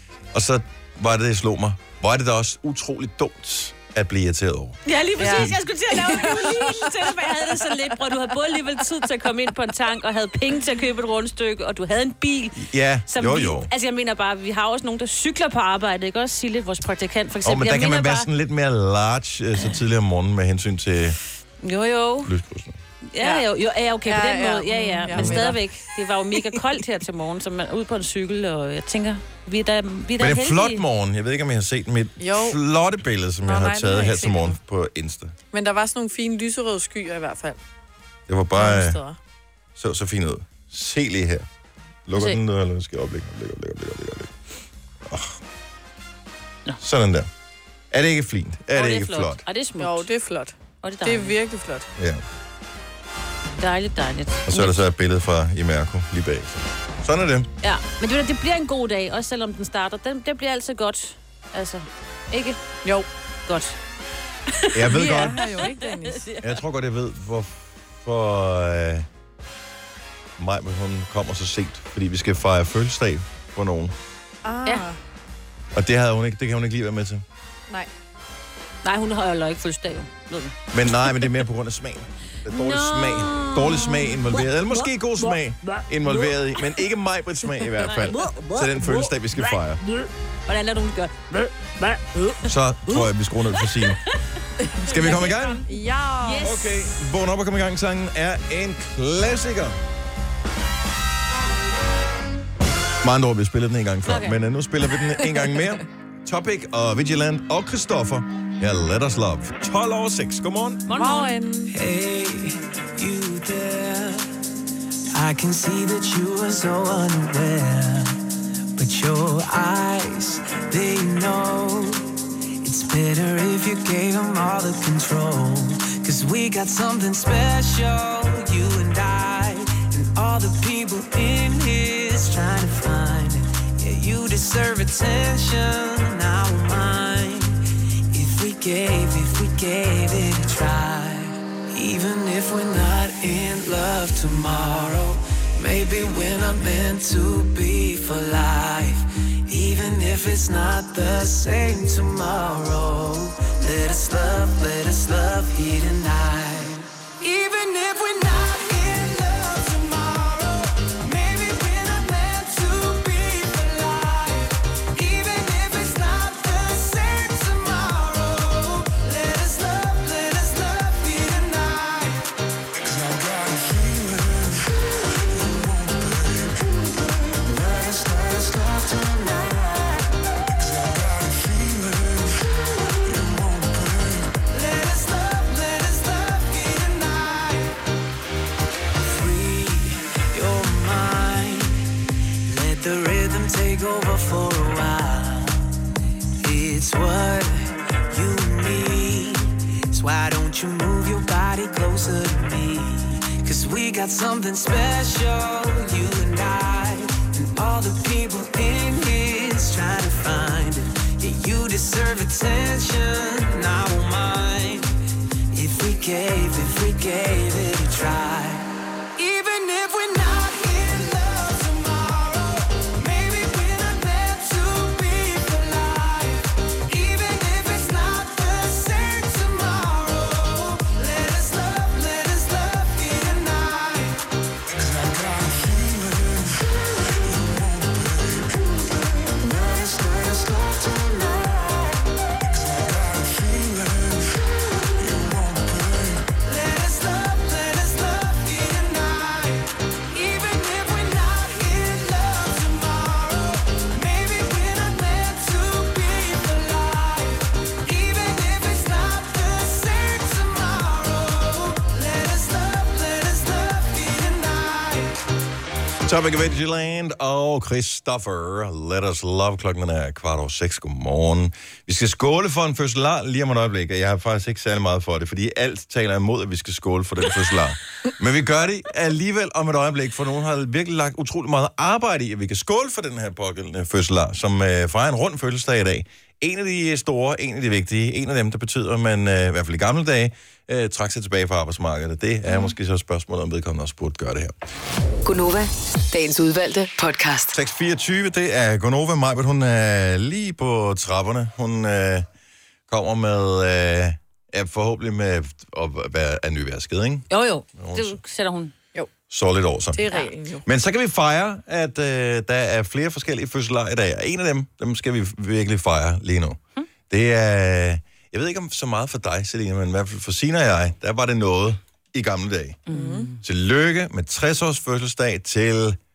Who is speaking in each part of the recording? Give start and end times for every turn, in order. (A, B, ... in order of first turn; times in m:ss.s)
0:00.3-0:05.6 A
0:04.8-0:18.3 B
0:05.2-0:06.9 C
0:12.6-0:13.7 A
0:17.4-0:21.2 A
0:21.6-0:22.3 B
0:22.2-0:22.8 A
0:23.1-0:30.8 B
0:24.0-0:25.6 C
0:25.1-0:25.5 A
0:30.2-0:35.3 A
0:32.2-0:32.6 C
0:33.4-0:34.6 C
0:35.5-0:37.6 C
0:38.3-0:39.0 A
0:38.6-0:39.2 C
0:39.8-0:41.4 A
0:42.0-0:44.4 A
0:42.1-0:42.4 B
0:45.0-0:45.4 A
0:46.8-0:47.3 A
0:47.9-0:49.4 A
0:48.7-0:50.1 B
0:49.8-0:50.5 C
0:50.8-0:51.3 B
0:51.0-0:51.9 C
0:52.0-0:52.2 A
0:53.6-0:54.8 B
0:54.5-0:57.5 A
0:57.6-1:02.6 B
1:03.5-1:03.8 B
1:04.5-1:06.5 B
1:04.7-1:05.4 A
1:04.9-1:06.3 C
1:06.4-1:09.0 A
1:10.4-1:13.9 A
1:14.4-1:15.0 C
1:15.7-1:17.2 A
1:18.8-1:20.6 B
1:20.7-1:29.8 A
1:22.5-1:24.5 B
1:27.8-1:28.3 B
1:29.3-1:29.6 B
1:30.5-1:31.2 B
1:32.4-1:34.0 A
1:34.8-1:35.6 A
1:34.9-1:35.6 B
1:35.7-1:36.5 C
1:36.2-1:36.8 B
1:36.4-1:39.8 A
1:43.0-1:50.9 A
1:44.0-1:44.4 B
1:45.4-1:45.7 C
1:50.9-1:51.4 B
1:50.9-1:51.7 C
1:51.7-1:54.4 D
1:55.1-1:58.2 D
1:58.8-2:17.6 D
2:18.1-2:52.3 D
2:52.8-3:00.1 D
3:00.6-3:07.8 D
3:09.1-3:11.9 D
3:12.5-3:15.7 D
3:16.4-3:34.9 D
3:35.5-3:56.6 D
3:57.2-4:02.0 D
4:02.5-4:04.3 D
4:05.0-4:25.2 D
4:26.0-4:54.5 A
4:52.5-4:52.7 B
4:55.2-4:57.5 E
4:57.5-5:02.2 A
5:02.9-5:08.2 A
5:07.3-5:08.7 B
5:09.3-5:10.0 A
5:09.9-5:10.6 C
5:10.6-5:22.8 A
5:22.9-5:23.4 B
5:22.9-5:23.3 C
5:23.4-5:26.0 A